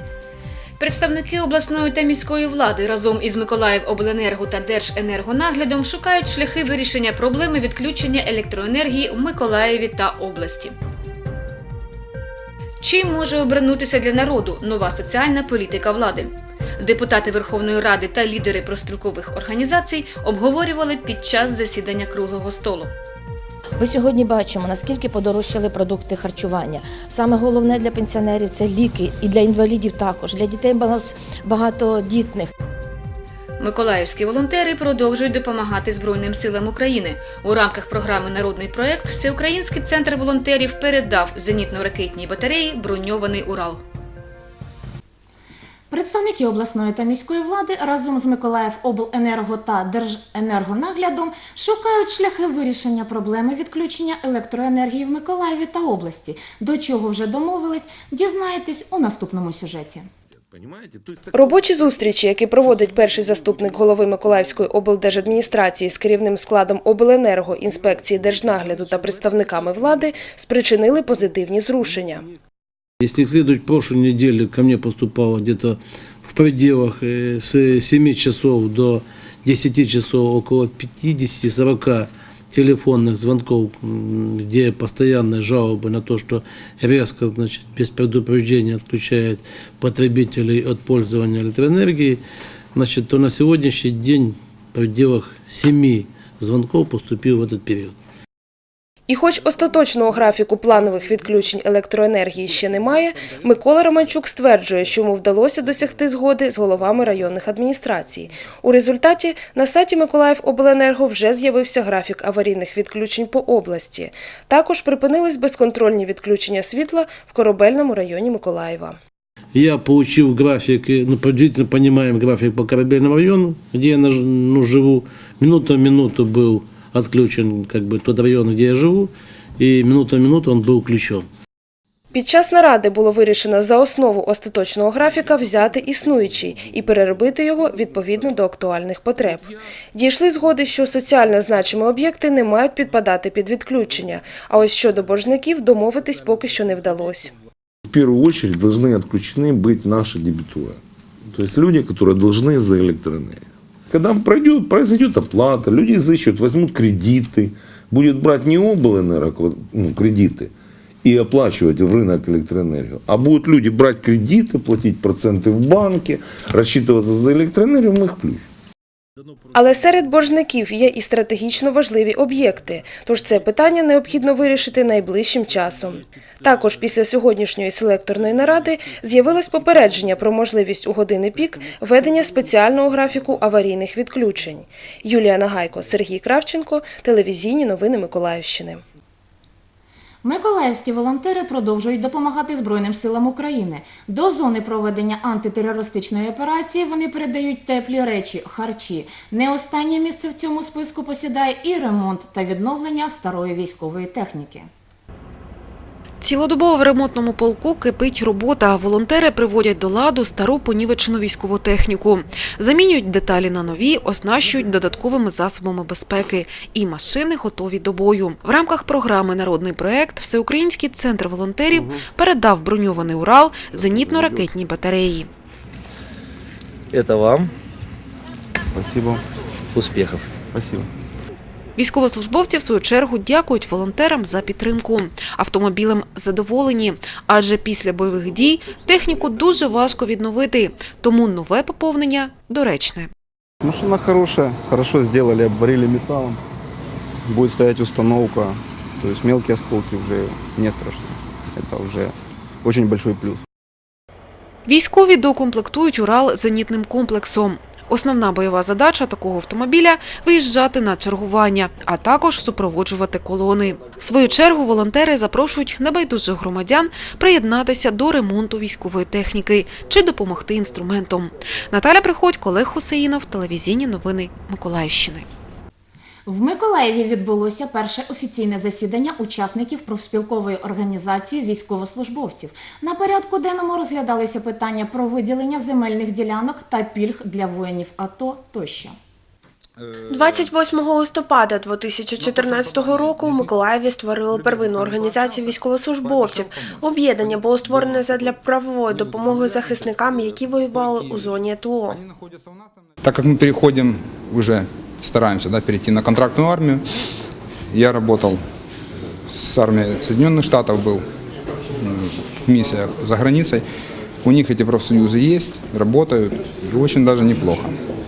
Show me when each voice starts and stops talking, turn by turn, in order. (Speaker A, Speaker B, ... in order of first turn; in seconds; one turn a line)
Speaker A: 0.8-10.7
Speaker A: 12.8-22.9
Speaker B: 23.8-32.5
Speaker A: 33.6-43.8
Speaker C: 45.9-60.1
Speaker D: 60.6-61.0
Speaker E: 61.3-72.2
Speaker F: 73.0-92.2
Speaker F: 92.7-98.0
Speaker E: 99.1-119.0
Speaker F: 119.5-131.2
Speaker E: 132.1-147.3
Speaker D: 147.9-150.8
Speaker D: 151.3-160.5
Speaker D: 161.0-168.4
Speaker E: 169.5-188.8
Speaker C: 190.2-204.7
Speaker G: 206.2-225.3
Speaker H: 226.9-227.4
Speaker H: 228.8-229.2
Speaker H: 229.7-230.8
Speaker G: 231.8-243.1
Speaker H: 243.6-246.4
Speaker H: 247.3-252.1
Speaker H: 252.6-253.4
Speaker G: 254.7-275.3
Speaker C: 276.3-288.9
Speaker I: 290.1-302.0
Speaker J: 301.9-306.8
Speaker J: 307.7-308.4
Speaker J: 309.3-311.0
Speaker J: 311.8-313.6
Speaker J: 314.2-317.8